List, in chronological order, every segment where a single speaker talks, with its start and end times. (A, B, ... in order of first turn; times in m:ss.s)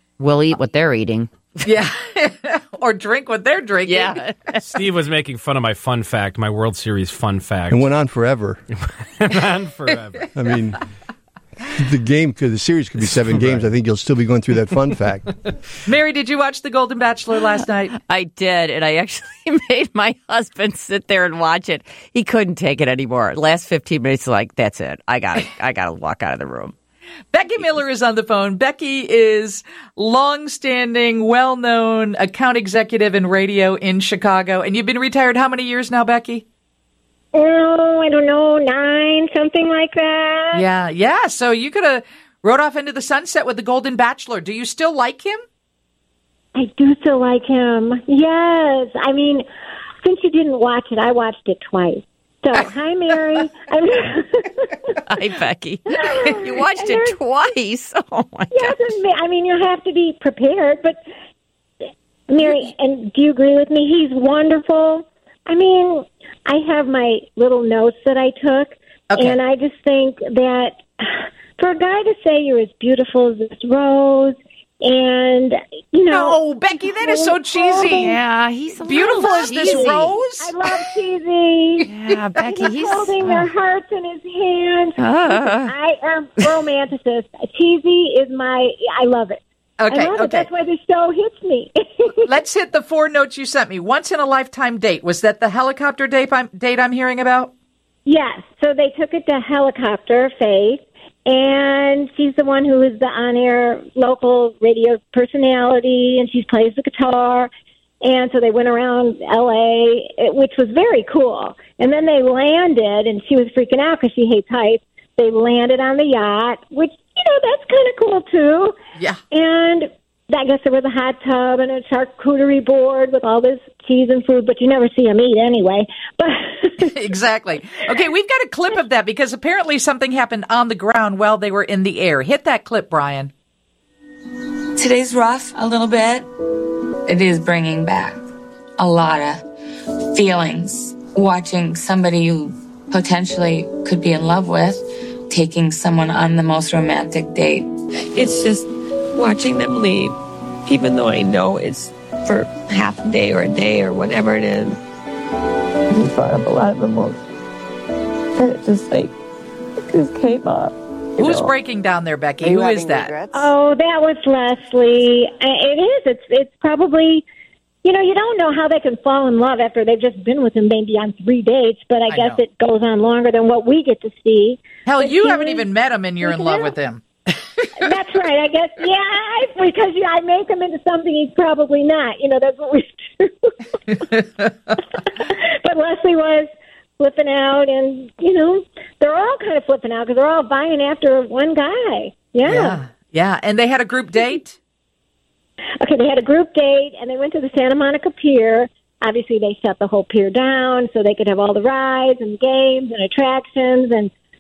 0:00.2-0:01.6 A
0:01.6-0:04.2 B
0:03.8-0:04.7 A
0:04.6-0:07.9 C
0:07.7-0:08.6 D
0:09.2-0:10.5 C
0:10.3-0:10.8 D
0:11.7-0:15.3 D
0:13.1-0:13.7 C
0:15.8-0:18.0 B
0:18.0-0:26.7 A
0:27.3-0:36.4 B
0:37.3-0:40.6 E
0:40.5-0:45.4 B
0:46.5-0:49.4 E
0:50.0-0:55.0 E
0:55.0-0:58.9 A
0:55.9-0:57.2 E
0:58.5-1:01.0 E
1:02.3-1:18.2 E
1:09.1-1:09.4 B
1:16.1-1:18.2 B
1:18.0-1:20.1 A
1:18.8-1:20.9 B
1:18.9-1:21.9 E
1:21.8-1:23.5 A
1:22.5-1:32.3 E
1:25.0-1:25.7 A
1:29.8-1:30.5 B
1:32.2-1:37.5 B
1:38.0-1:47.5 E
1:48.0-1:58.7 E
1:59.3-2:06.9 E
2:06.8-2:13.3 B
2:14.8-2:16.3 F
2:17.1-2:18.2 F
2:18.8-2:19.4 F
2:20.1-2:27.7 F
2:28.2-2:28.6 G
2:29.2-2:30.1 G
2:30.7-2:34.7 G
2:36.0-2:37.1 G
2:38.4-2:39.1 G
2:39.9-2:41.5 G
2:41.2-2:43.1 B
2:42.5-2:43.5 G
2:43.3-2:47.2 E
2:47.8-2:55.7 E
2:52.1-2:52.4 B
2:54.8-2:57.8 B
2:56.2-2:56.7 E
2:57.8-3:04.0 E
3:05.0-3:06.4 E
3:07.0-3:12.8 E
3:12.4-3:14.6 B
3:15.8-3:24.1 E